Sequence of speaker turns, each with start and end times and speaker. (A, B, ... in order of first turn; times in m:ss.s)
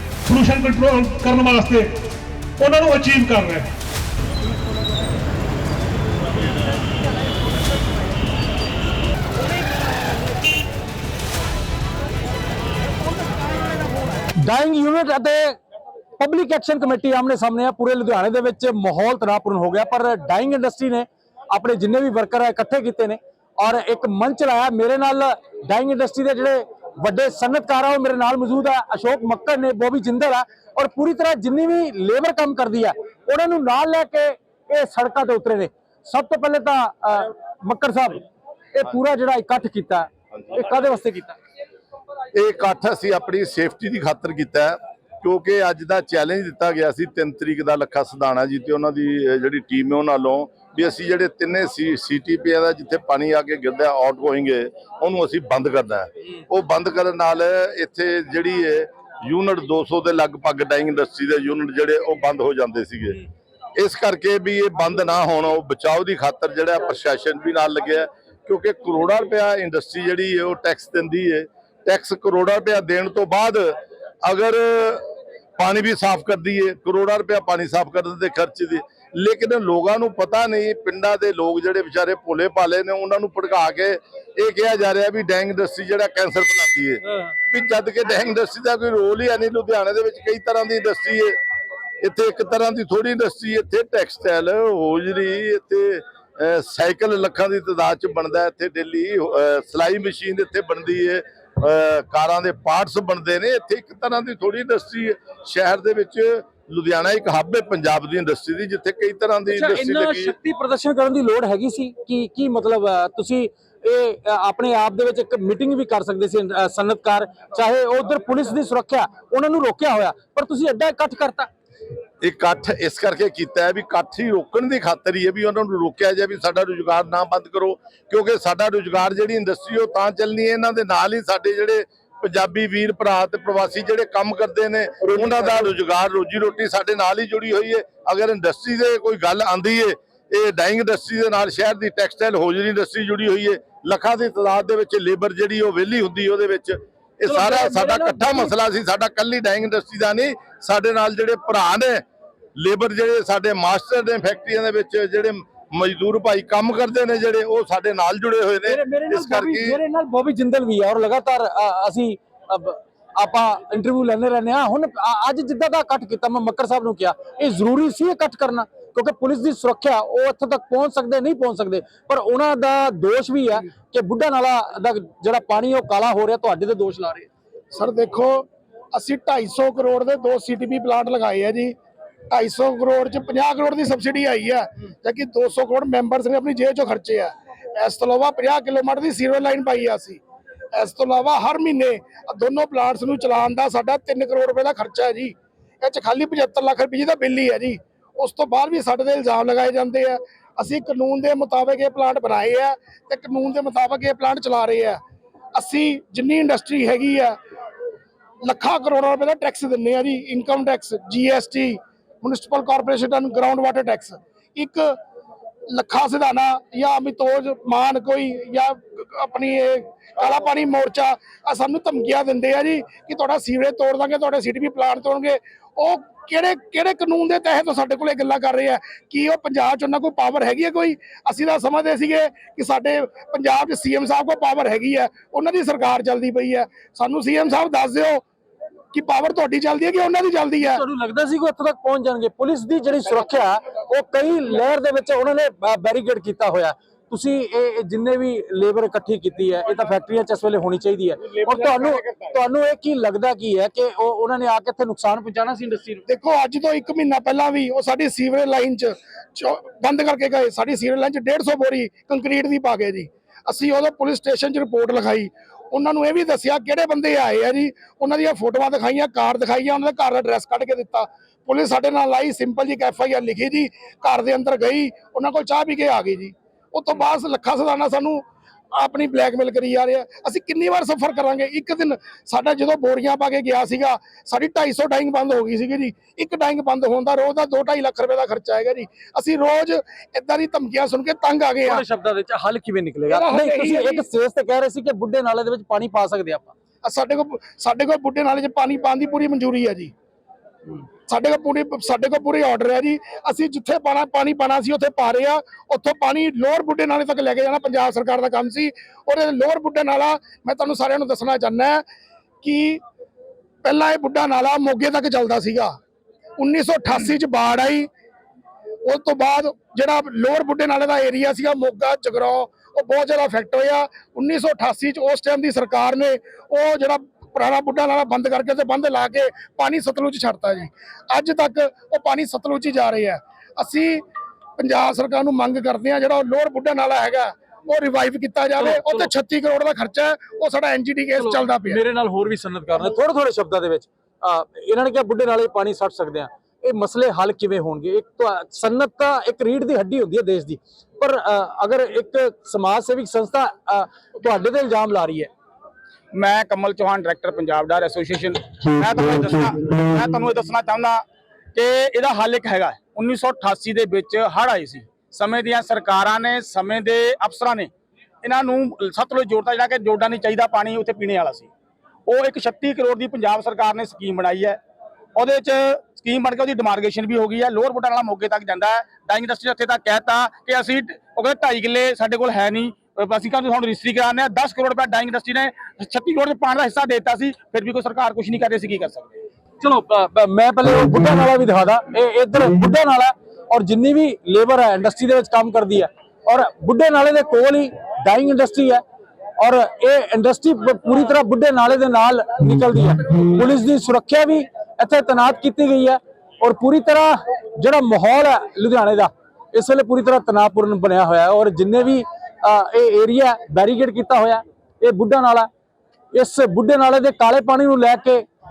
0:00.3-0:01.9 A
0:02.6-0:03.7 A
0:14.4-0:15.6 B
0:16.2-0:41.4 B
0:42.4-1:03.2 C
1:03.8-1:15.1 C
1:15.6-1:31.4 C
1:32.0-1:50.4 C
1:49.5-2:01.5 B
2:02.2-2:32.0 C
2:27.3-2:28.5 B
2:32.6-2:39.8 C
2:38.7-2:57.3 B
2:57.7-3:01.8 D
3:02.3-3:10.2 D
3:10.7-3:25.0 D
3:25.6-3:27.4 D
3:28.4-3:35.0 D
3:35.7-3:58.2 D
3:58.9-4:00.9 D
4:00.6-4:16.0 B
4:16.1-4:38.2 D
4:38.7-4:51.8 D
4:51.6-4:56.5 B
4:53.1-4:54.0 D
4:56.8-4:59.9 D
5:01.1-5:11.8 D
5:12.4-5:12.8 D
5:13.6-5:15.7 D
5:16.4-5:17.9 D
5:18.9-5:34.0 D
5:34.6-5:41.8 D
5:38.6-5:39.1 B
5:41.2-5:55.3 B
5:56.1-6:01.0 E
6:01.6-6:07.7 E
6:08.2-6:11.5 E
6:12.1-6:14.6 E
6:15.2-6:29.1 E
6:29.6-6:38.8 B
6:39.4-6:55.5 B
6:56.1-6:58.3 B